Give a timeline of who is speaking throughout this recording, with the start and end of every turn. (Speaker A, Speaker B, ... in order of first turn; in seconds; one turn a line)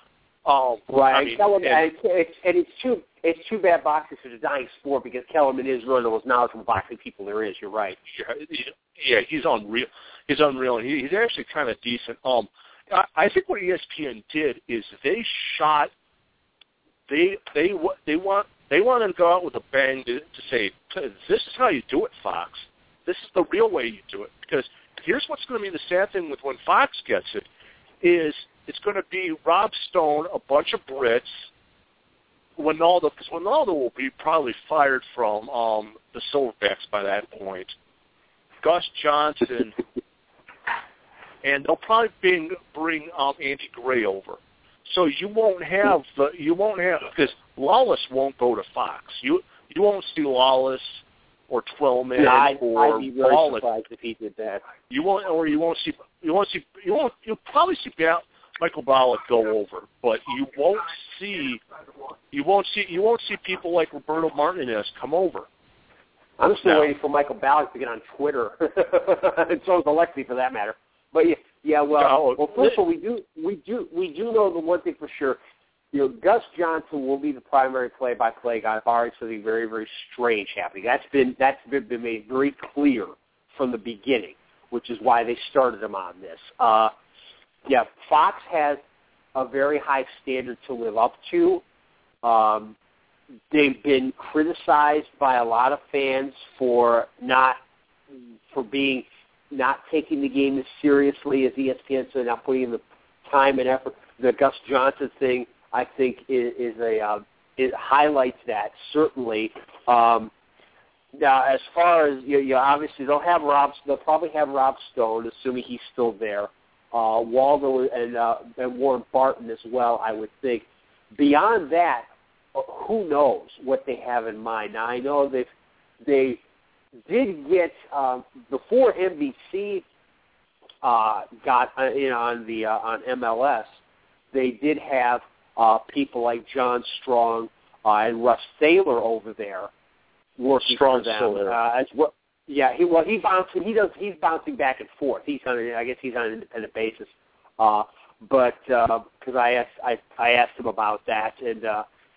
Speaker A: 0.4-1.9
Speaker B: 0.9-8.0
Speaker A: 8.1-15.9
Speaker A: 17.1-27.4
Speaker A: 28.0-31.5
Speaker A: 32.6-37.7
Speaker A: 38.6-39.8
Speaker A: 41.4-53.6
Speaker B: 52.2-54.6
Speaker A: 54.9-61.6
Speaker A: 62.3-65.5
Speaker B: 66.4-75.4
Speaker A: 66.6-66.9
Speaker A: 72.0-72.8
Speaker B: 75.9-86.9
Speaker B: 87.7-88.8
Speaker B: 89.3-91.6
Speaker B: 92.2-92.7
Speaker B: 93.5-97.6
Speaker B: 98.5-110.3
Speaker B: 111.1-125.5
Speaker B: 126.0-126.4
Speaker B: 127.1-129.8
Speaker B: 130.8-133.7
Speaker B: 134.3-139.7
Speaker B: 140.4-151.8
Speaker A: 140.6-141.6